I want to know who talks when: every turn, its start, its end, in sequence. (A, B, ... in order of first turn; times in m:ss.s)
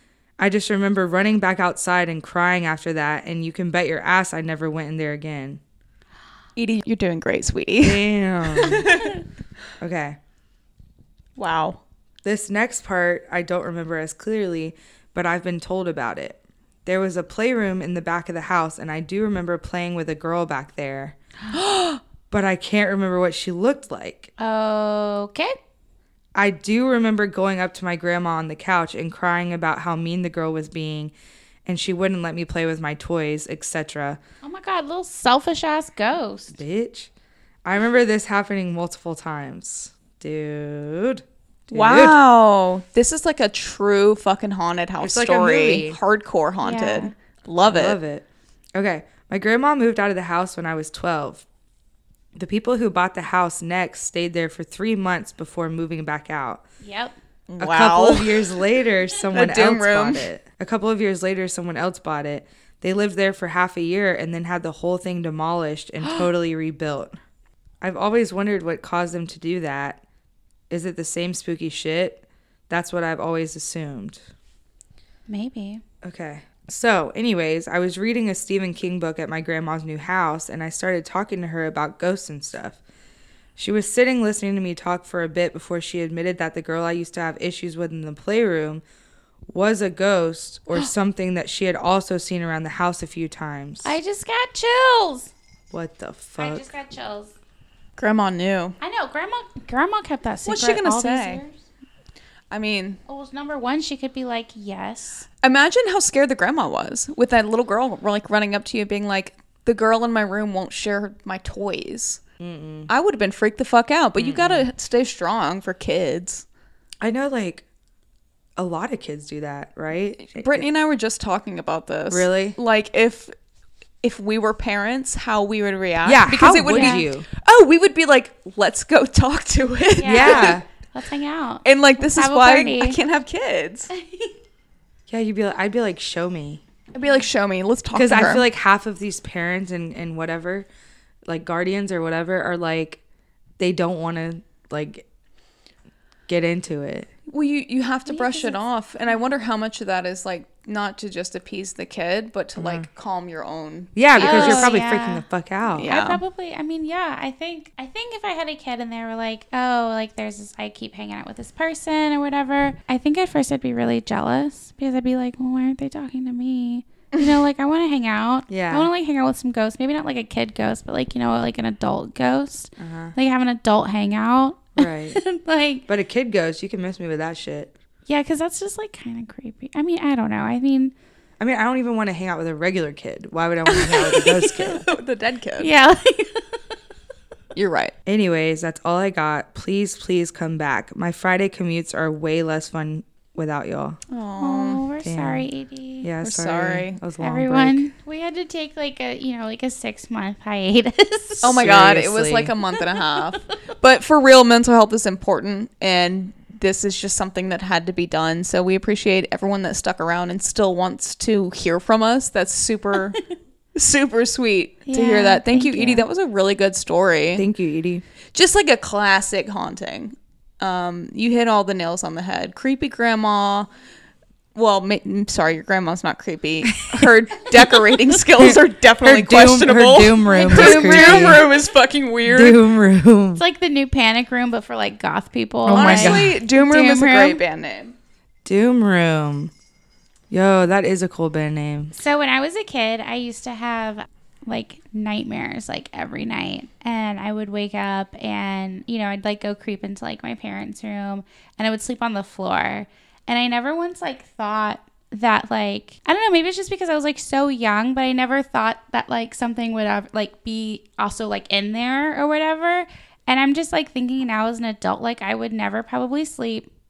0:00.4-0:05.6 A
0:06.6-0:09.2 B
0:07.8-0:09.0 A
0:09.8-0:10.2 A
0:11.4-0:11.8 B
0:12.2-0:21.2 A
0:21.5-0:22.0 B
0:22.3-0:24.3 A
0:24.4-0:25.5 C
0:26.3-0:31.1 A
0:31.6-0:34.2 A
0:34.4-0:36.6 C
0:36.5-0:37.1 A
0:37.6-0:42.2 A
0:41.7-0:48.0 B
0:45.0-0:46.0 A
0:46.6-0:47.1 C
0:47.7-0:51.4 A
0:52.4-0:56.6 A
0:56.8-0:57.1 C
0:57.5-0:58.5 B
0:57.6-1:07.1 A
0:59.3-1:00.2 B
1:07.8-1:10.0 A
1:10.7-1:14.2 A
1:15.3-1:15.8 C
1:16.0-1:22.8 A
1:23.6-1:28.8 A
1:29.5-1:34.0 A
1:33.8-1:35.3 C
1:35.7-1:36.6 A
1:36.4-1:37.3 C
1:38.0-1:38.8 B
1:38.8-1:41.5 C
1:40.4-1:41.4 B
1:42.5-1:43.0 B
1:43.1-1:45.2 C
1:45.4-1:52.2 B
1:52.4-1:52.9 A
1:52.9-1:56.4 B
1:54.2-1:54.7 A
1:57.0-1:57.6 A
1:58.6-2:00.7 A
2:00.2-2:03.3 B
2:02.1-2:02.6 A
2:04.0-2:10.6 B
2:06.0-2:07.2 A
2:06.5-2:07.0 C
2:10.0-2:13.0 C
2:10.0-2:10.6 A
2:11.6-2:13.9 B
2:13.9-2:14.3 C
2:15.1-2:16.6 A
2:16.9-2:18.4 B
2:17.9-2:20.7 A
2:21.3-2:23.0 A
2:23.6-2:25.0 A
2:26.3-2:27.1 A
2:27.3-2:34.8 B
2:28.1-2:28.6 C
2:32.6-2:32.8 A
2:34.0-2:35.9 A
2:34.2-2:35.2 C
2:35.8-2:36.2 B
2:35.8-2:55.8 C
2:48.5-2:48.9 A
2:52.8-2:53.1 A
2:54.8-2:55.2 A
2:55.9-2:57.7 A
2:58.1-3:00.9 C
3:01.4-3:04.9 A
3:03.7-3:05.7 B
3:05.6-3:06.6 C
3:07.5-3:07.9 B
3:08.1-3:14.0 A
3:14.1-3:14.8 B
3:14.4-3:16.1 C
3:15.0-3:15.5 A
3:16.0-3:17.9 A
3:16.2-3:17.0 B
3:17.2-3:21.6 C
3:21.4-3:33.2 B
3:21.5-3:22.5 A
3:33.7-3:37.4 B
3:34.9-3:36.1 C
3:37.4-3:38.0 A
3:38.3-3:43.7 B
3:44.5-3:52.6 B
3:48.4-3:51.4 A
3:50.2-3:51.5 C
3:52.2-3:53.4 A
3:53.4-3:57.4 C
3:55.6-3:56.4 A
3:55.7-3:57.9 B
3:58.4-3:59.5 A
4:00.3-4:01.9 A
4:02.0-4:26.7 C